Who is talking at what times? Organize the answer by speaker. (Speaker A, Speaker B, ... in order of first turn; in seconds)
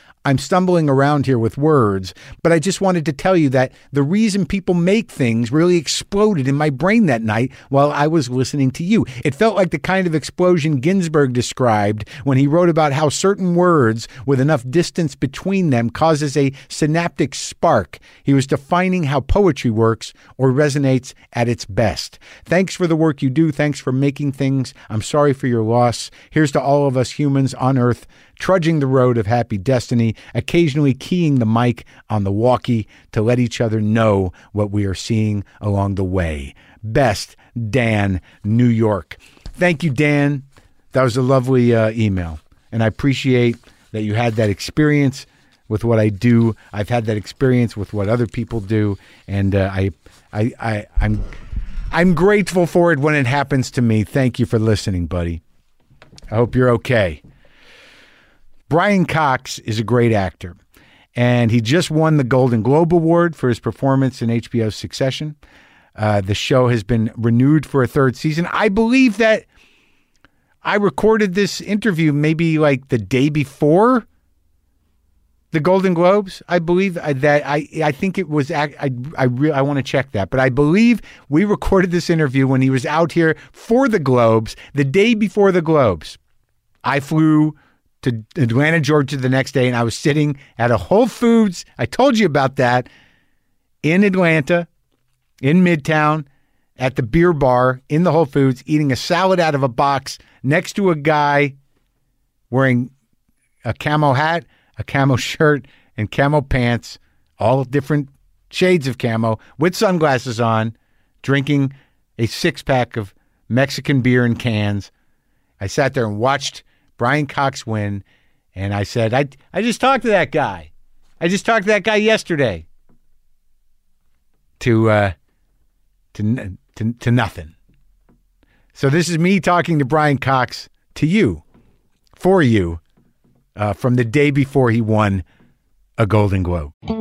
Speaker A: 0.2-51.2, 51.9-55.4, 56.3-57.2, 58.7-60.5, 61.1-65.3, 66.0-69.5, 70.6-74.0, 75.5-86.2, 86.8-92.9, 93.8-94.7, 95.4-96.2, 96.8-101.5, 102.5-102.9, 103.6-114.9, 115.6-118.0, 118.5-122.6, 124.6-125.1, 126.1-127.5, 128.7-131.4, 132.2-132.8, 133.6-135.2, 136.0-136.7